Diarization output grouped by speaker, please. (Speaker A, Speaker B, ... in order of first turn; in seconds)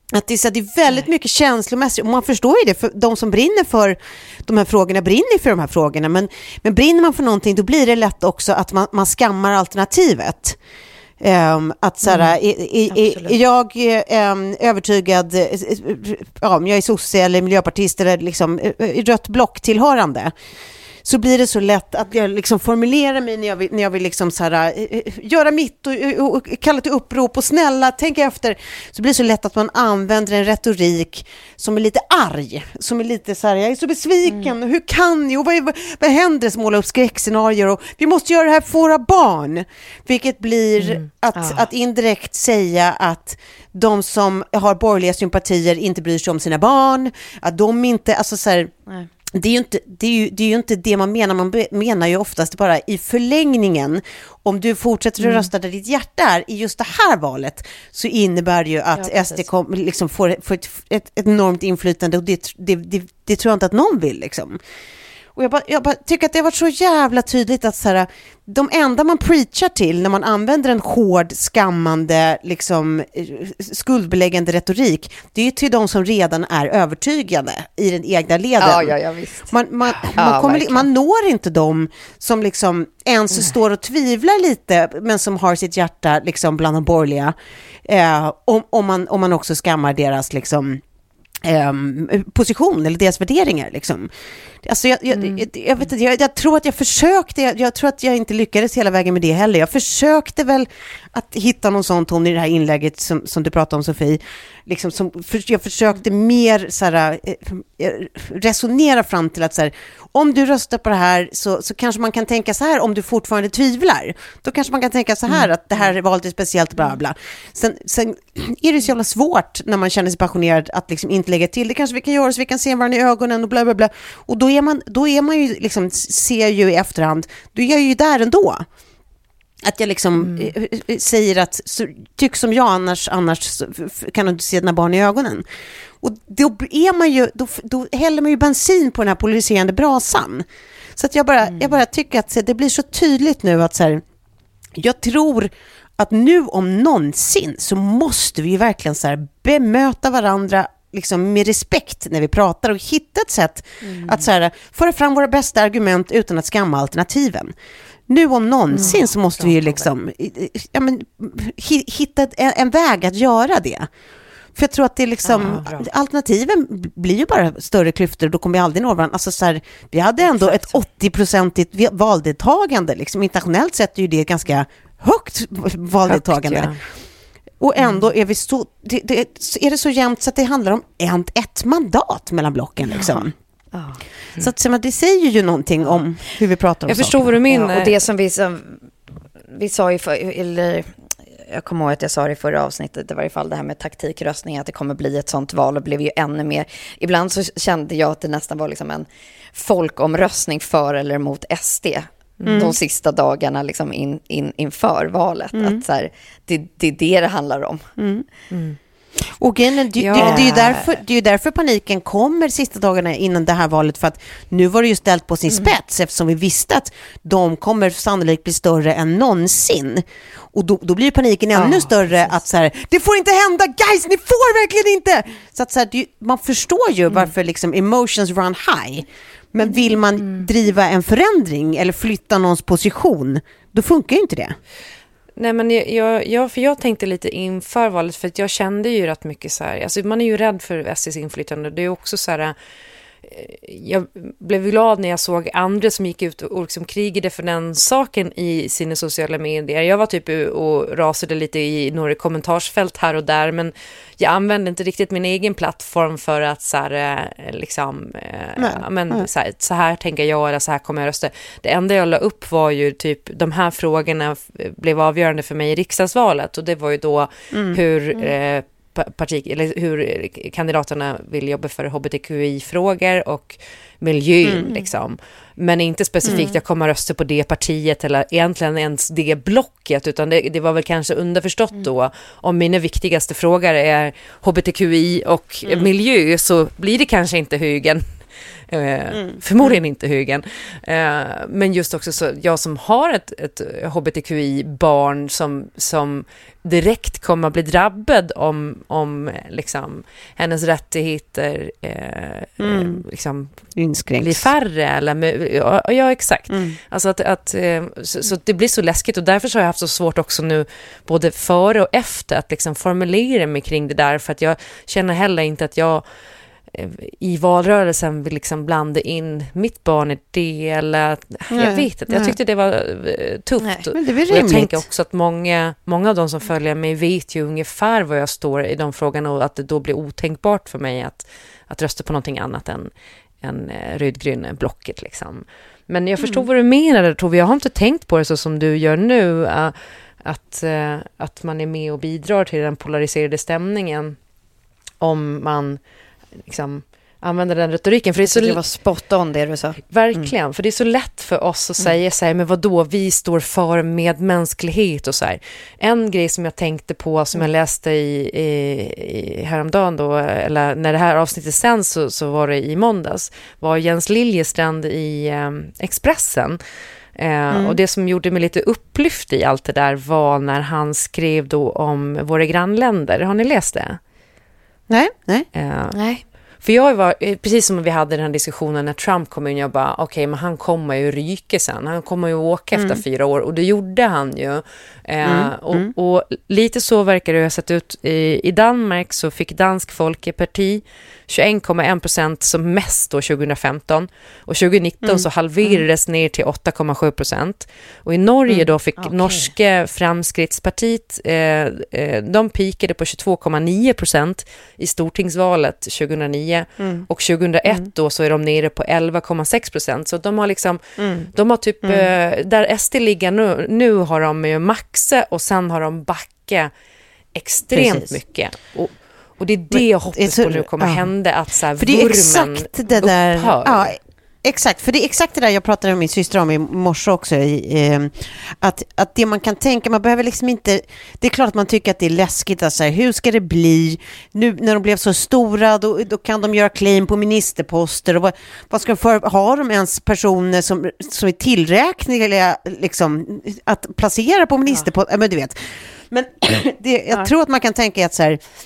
Speaker A: 0.1-10.6, 11.2-20.3, 21.0-48.7, 49.3-64.6, 65.3-79.0, 79.5-90.8, 91.4-94.1, 94.6-128.7, 129.6-135.4, 136.0-144.0, 144.8-157.5, 158.1-163.9, 164.6-176.7, 177.6-183.3, 184.4-187.3, 205.5-205.8, 208.0-208.3, 209.3-234.6, 258.6-259.3, 267.5-267.8, 302.6-303.0, 303.8-304.5, 306.5-306.8, 321.5-322.4, 323.9-324.9, 367.5-367.8, 374.9-375.5, 382.8-383.0, 385.2-385.9, 395.0-395.8, 406.8-407.1, 411.0-411.3, 411.8-412.1, 417.7-418.1, 419.7-421.1, 421.8-445.6, 446.1-448.4
Speaker B: 12.9-13.4, 41.4-41.6, 59.0-59.5, 78.6-79.5, 80.1-80.9, 141.5-141.8, 153.8-154.2, 183.7-184.0, 187.5-188.9, 189.5-207.8, 210.2-210.9, 221.6-221.9, 276.3-276.6, 348.2-350.3, 375.9-376.2, 399.0-399.5
Speaker C: 40.8-41.0, 130.2-130.5, 158.8-159.9, 165.3-165.8, 170.3-170.8, 176.1-176.8, 186.9-188.0, 202.4-202.7, 208.5-208.8, 210.0-210.7, 235.4-242.6, 243.2-288.0, 288.7-303.5, 304.2-316.0, 316.7-332.9, 333.4-344.2, 345.0-345.8, 346.4-348.6, 349.9-366.6, 367.2-374.0, 375.6-376.0, 376.6-410.8, 411.3-416.7, 417.4-423.9